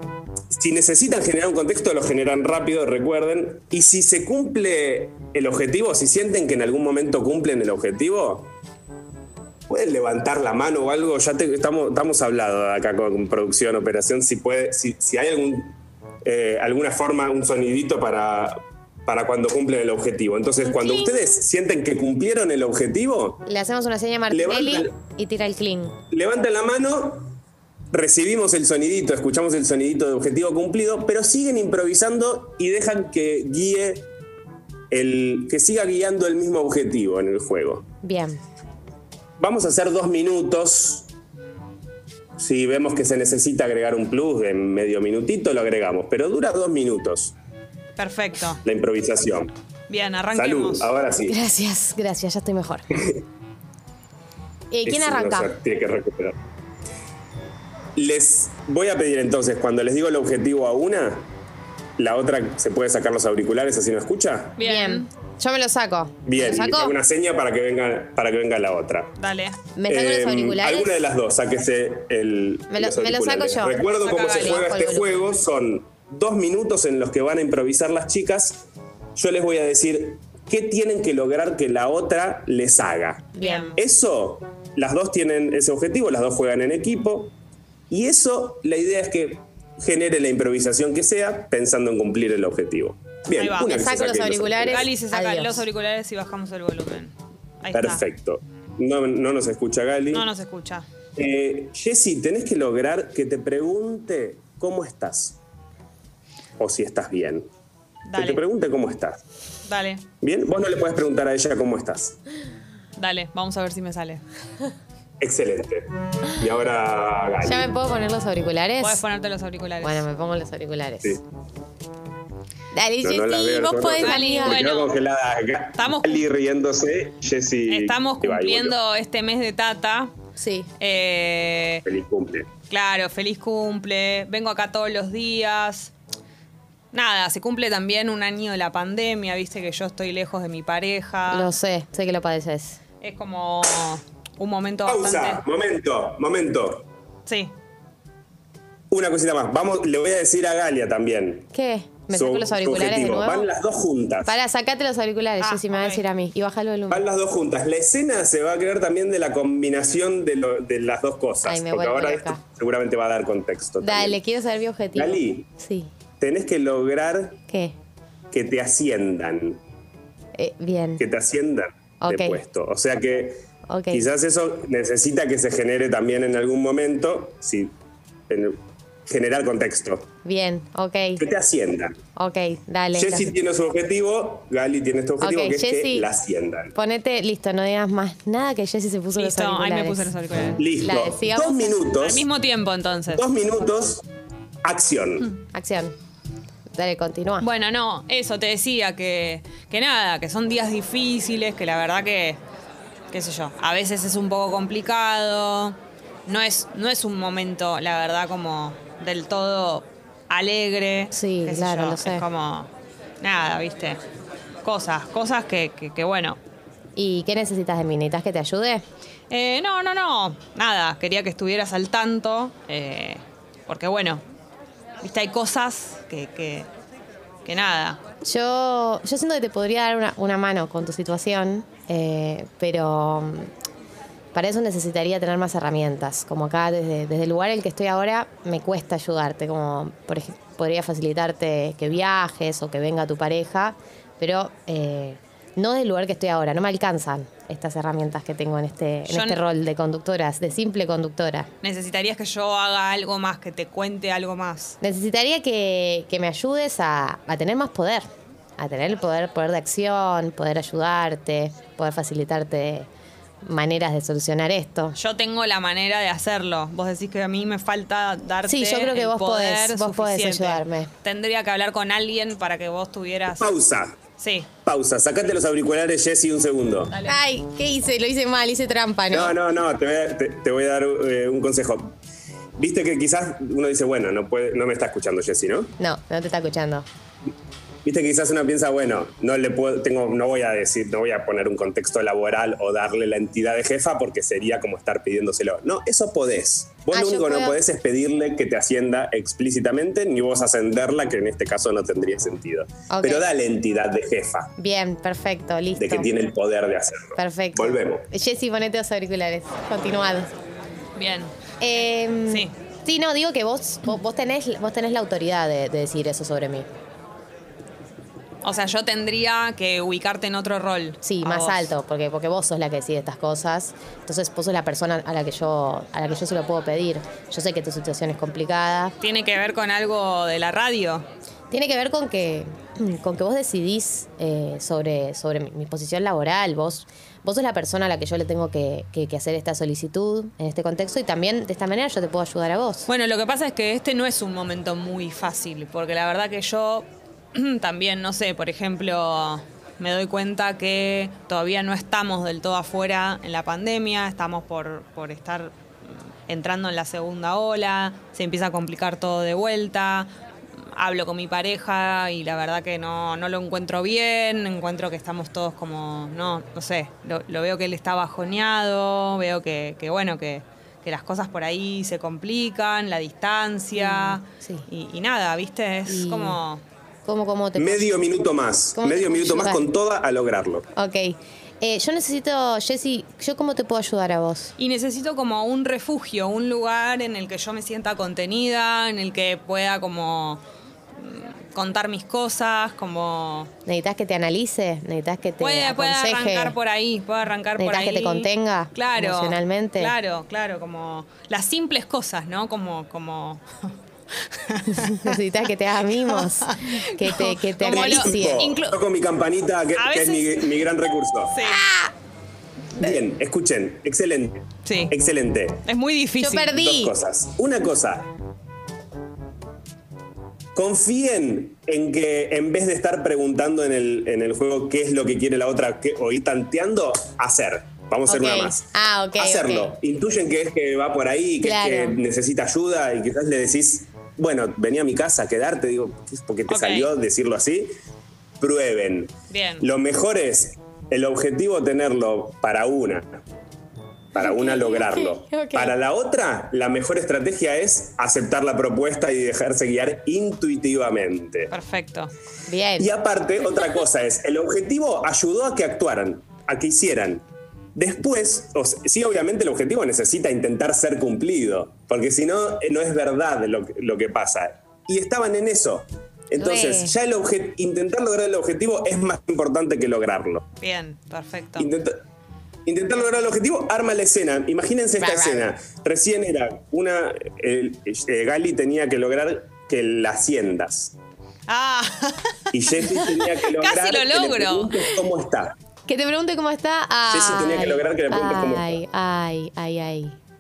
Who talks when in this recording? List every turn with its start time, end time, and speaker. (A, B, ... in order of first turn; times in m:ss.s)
0:00.5-0:08.5 A
0:09.7-0:23.4 A
0:23.5-0:26.0 B
0:24.3-0:24.9 A
0:26.1-0:27.4 A
0:27.9-0:34.1 A
0:34.9-0:37.9 A
0:38.0-0:38.4 B
0:39.4-0:41.1 A
0:42.4-0:47.3 A
0:48.0-0:48.6 C
0:48.6-0:49.5 A
0:49.9-0:50.9 C
0:50.3-0:51.4 A
0:51.2-0:52.9 B
0:54.7-0:55.5 B
0:54.8-0:56.4 A
0:58.0-1:01.3 A
1:02.0-1:04.6 A
1:04.6-1:05.1 C
1:04.6-1:07.0 B
1:06.3-1:09.1 A
1:09.2-1:09.6 C
1:09.8-1:10.9 B
1:09.9-1:27.3 A
1:12.7-1:15.2 B
1:13.9-1:14.7 C
1:23.4-1:23.8 B
1:23.4-1:23.8 C
1:27.9-1:34.9 A
1:33.4-1:33.9 C
1:33.6-1:35.6 B
1:34.7-1:38.0 C
1:37.7-1:40.3 A
1:40.1-1:40.9 C
1:41.2-1:45.4 A
1:46.6-1:47.5 A
1:48.1-1:48.4 C
1:48.2-1:49.2 A
1:49.7-1:50.1 C
1:50.2-1:52.2 A
1:53.0-1:54.2 C
1:55.2-1:57.7 A
1:57.4-1:59.0 B
1:58.8-2:00.0 C
1:59.8-2:01.2 B
2:02.7-2:04.7 B
2:03.0-2:08.8 A
2:04.0-2:04.9 C
2:05.8-2:06.2 C
2:07.7-2:10.1 C
2:10.4-2:10.7 B
2:10.8-2:11.8 C
2:11.8-2:12.5 A
2:12.7-2:15.9 C
2:16.9-2:21.5 C
2:21.3-2:22.8 B
2:23.0-2:25.4 C
2:24.8-2:26.9 A
2:27.3-2:27.5 C
2:28.9-2:31.5 A
2:31.5-2:33.5 B
2:32.1-2:34.3 A
2:34.3-2:37.0 B
2:35.4-2:36.0 C
2:36.9-2:44.2 A
2:41.4-2:42.4 B
2:43.8-2:45.9 B
2:45.0-2:45.5 A
2:46.2-2:47.4 A
2:47.5-2:47.8 B
2:48.3-2:49.6 A
2:50.4-2:51.0 B
2:51.0-2:57.8 A
2:52.0-2:52.4 B
2:53.7-2:54.1 B
2:58.3-3:00.1 A
3:00.2-3:01.2 B
3:01.2-3:02.0 A
3:02.2-3:03.3 B
3:03.0-3:06.7 A
3:05.2-3:06.1 B
3:06.8-3:10.1 B
3:09.2-3:10.6 C
3:10.6-3:12.3 A
3:10.8-3:11.8 B
3:12.0-3:13.2 C
3:13.1-3:14.0 A
3:14.6-3:15.3 A
3:15.5-3:15.9 B
3:16.8-3:17.5 B
3:17.4-3:22.4 C
3:23.1-3:32.7 C
3:31.1-3:32.2 B
3:33.2-3:34.0 C
3:34.6-3:36.4 C
3:37.0-3:38.8 B
3:39.3-3:44.2 C
3:45.0-3:46.7 C
3:47.4-3:48.0 C
3:48.2-3:53.5 B
3:54.3-4:11.5 B
4:09.1-4:09.4 C
4:11.6-4:14.8 C
4:14.8-4:18.1 B
4:18.6-4:22.9 B
4:23.4-4:25.0 B
4:25.0-4:33.5 C
4:28.5-4:30.9 B
4:33.4-4:34.0 A
4:34.2-4:34.5 C
4:34.6-4:36.9 A
4:37.0-4:39.4 B
4:39.1-4:42.0 A
4:42.6-4:45.7 A
4:45.8-4:46.9 B
4:47.8-5:04.5 A
4:56.9-4:57.6 B
5:02.9-5:03.2 B
5:04.6-5:06.1 B
5:05.8-5:08.0 A
5:07.2-5:10.3 B
5:11.0-5:11.3 C
5:11.6-5:16.7 B
5:18.4-5:21.7 C
5:21.0-5:29.0 B
5:29.0-5:31.1 C
5:31.5-5:42.9 B
5:42.9-6:00.1 C
6:00.7-6:16.6 C
6:13.8-6:14.7 B
6:15.9-6:16.4 B
6:17.1-6:18.0 B
6:17.6-6:20.7 A
6:18.8-6:19.7 B
6:20.8-6:24.5 B
6:24.6-6:30.4 C
6:31.0-6:33.5 C
6:33.7-6:36.6 B
6:35.4-6:43.7 C
6:37.6-6:39.9 B
6:44.2-6:45.2 C
6:44.7-6:48.5 B
6:46.0-6:48.8 C
6:47.7-6:51.4 A
6:49.8-6:50.6 C
6:51.3-6:51.6 C
6:51.4-6:51.9 B
6:52.8-6:55.6 A
6:54.6-6:55.0 C
6:55.6-6:56.6 C
6:56.2-6:56.9 B
6:56.5-6:58.1 A
7:00.6-7:17.7 A
7:08.1-7:09.8 B
7:11.4-7:12.0 B
7:16.5-7:16.9 C
7:18.4-7:23.2 A
7:19.3-7:19.7 C
7:24.1-7:31.5 A
7:24.2-7:25.8 B
7:31.5-7:32.1 C
7:32.5-7:32.9 B
7:32.8-7:37.2 A
7:37.8-7:50.5 A
7:46.4-7:46.9 B
7:50.6-7:51.7 C
7:51.6-7:52.0 A
7:52.6-8:01.0 A
7:55.0-7:55.5 B
8:01.5-8:04.8 C
8:02.5-8:05.6 A
8:05.9-8:10.2 B
8:07.1-8:08.8 A